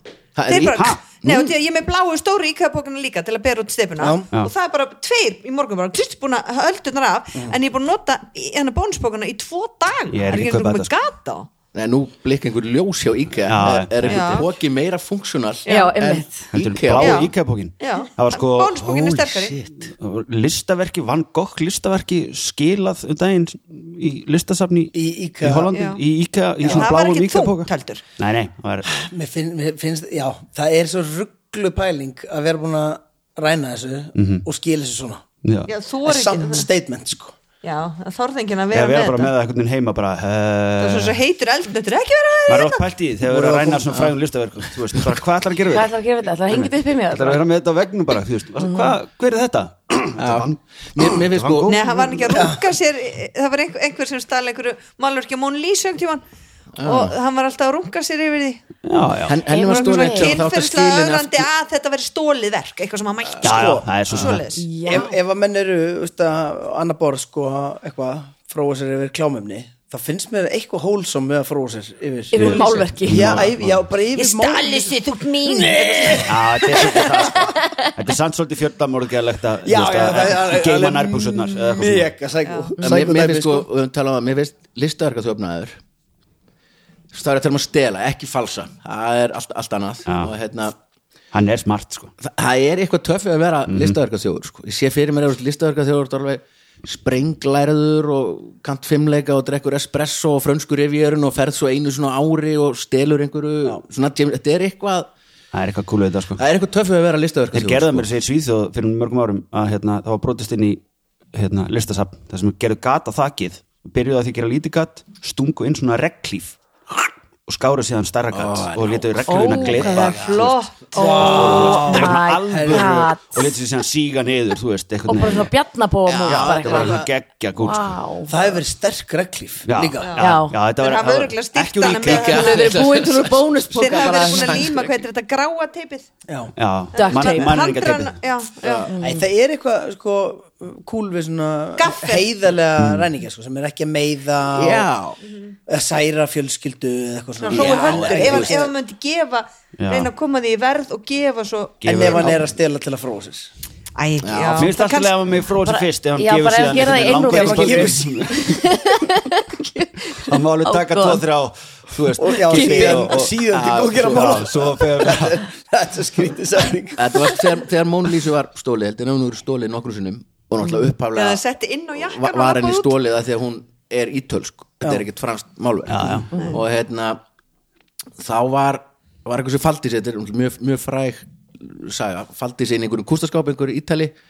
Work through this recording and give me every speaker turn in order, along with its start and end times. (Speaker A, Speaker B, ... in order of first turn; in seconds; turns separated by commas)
Speaker A: 0.3-1.5, Speaker B: 0.5-11.5, Speaker C: 4.0-4.3, Speaker D: 10.1-10.9, Speaker A: 11.7-17.3, Speaker D: 13.4-14.4, Speaker B: 14.0-14.5, Speaker B: 15.6-15.9, Speaker E: 15.7-16.5, Speaker D: 16.5-19.1, Speaker B: 17.0-19.6, Speaker A: 18.8-19.9, Speaker D: 20.0-28.9, Speaker C: 24.9-25.8, Speaker B: 25.7-26.0, Speaker C: 26.6-26.9, Speaker B: 26.6-28.0, Speaker C: 28.8-35.2, Speaker D: 34.1-34.4, Speaker D: 35.4-35.7, Speaker B: 35.7-36.7, Speaker C: 36.0-37.3, Speaker B: 37.6-39.3, Speaker D: 38.7-41.2, Speaker B: 40.8-42.9, Speaker D: 42.5-45.9, Speaker C: 43.2-44.0, Speaker E: 45.7-47.4, Speaker D: 46.5-52.3, Speaker E: 48.6-48.9, Speaker A: 50.2-52.4, Speaker B: 51.7-56.2, Speaker C: 52.3-52.6, Speaker A: 56.8-57.1, Speaker B: 56.8-58.6, Speaker D: 58.8-59.4, Speaker A: 59.3-61.5, Speaker E: 59.5-60.4, Speaker B: 59.6-65.0, Speaker D: 63.4-64.5, Speaker E: 64.5-65.2, Speaker C: 64.8-77.0, Speaker E: 72.3-73.4, Speaker D: 72.3-73.8, Speaker B: 74.2-76.2, Speaker D: 76.2-82.1, Speaker E: 77.2-77.9, Speaker C: 79.6-83.7, Speaker B: 82.5-82.7, Speaker A: 82.8-85.8, Speaker A: 87.1-90.7, Speaker D: 90.1-90.3, Speaker D: 91.3-92.1, Speaker A: 92.2-105.1, Speaker D: 93.7-94.0, Speaker D: 105.5-106.4, Speaker A: 106.4-108.1, Speaker D: 107.5-110.8, Speaker D: 111.3-116.6, Speaker D: 117.5-120.5, Speaker A: 118.3-120.5, Speaker B: 119.3-121.8, Speaker C: 120.9-123.0, Speaker E: 121.0-123.5, Speaker D: 121.2-125.5, Speaker E: 125.1-128.3, Speaker A: 126.1-127.1, Speaker D: 126.2-128.0, Speaker C: 128.3-130.2, Speaker D: 129.7-132.6, Speaker E: 130.2-130.6, Speaker B: 130.8-133.0, Speaker A: 132.0-135.0, Speaker E: 132.2-134.7, Speaker B: 133.7-136.1, Speaker D: 136.6-138.2, Speaker B: 136.9-138.9, Speaker E: 136.9-137.6, Speaker A: 138.6-138.9, Speaker E: 138.9-139.3, Speaker C: 139.0-144.9, Speaker B: 141.8-142.3, Speaker D: 142.8-143.1, Speaker A: 144.5-145.2, Speaker B: 145.2-145.5, Speaker C: 145.7-148.7, Speaker B: 147.4-152.4, Speaker A: 147.5-148.6, Speaker D: 149.8-150.1, Speaker D: 151.8-152.4, Speaker C: 151.8-153.5, Speaker B: 153.9-155.1, Speaker A: 154.2-154.7, Speaker D: 154.5-158.7, Speaker E: 155.6-161.2, Speaker C: 157.1-158.2, Speaker D: 160.2-163.4, Speaker C: 162.2-167.5, Speaker A: 162.8-164.5, Speaker D: 163.9-165.4, Speaker A: 167.0-171.4, Speaker B: 171.1-172.9, Speaker A: 171.9-177.2, Speaker D: 175.9-176.3, Speaker A: 178.2-184.1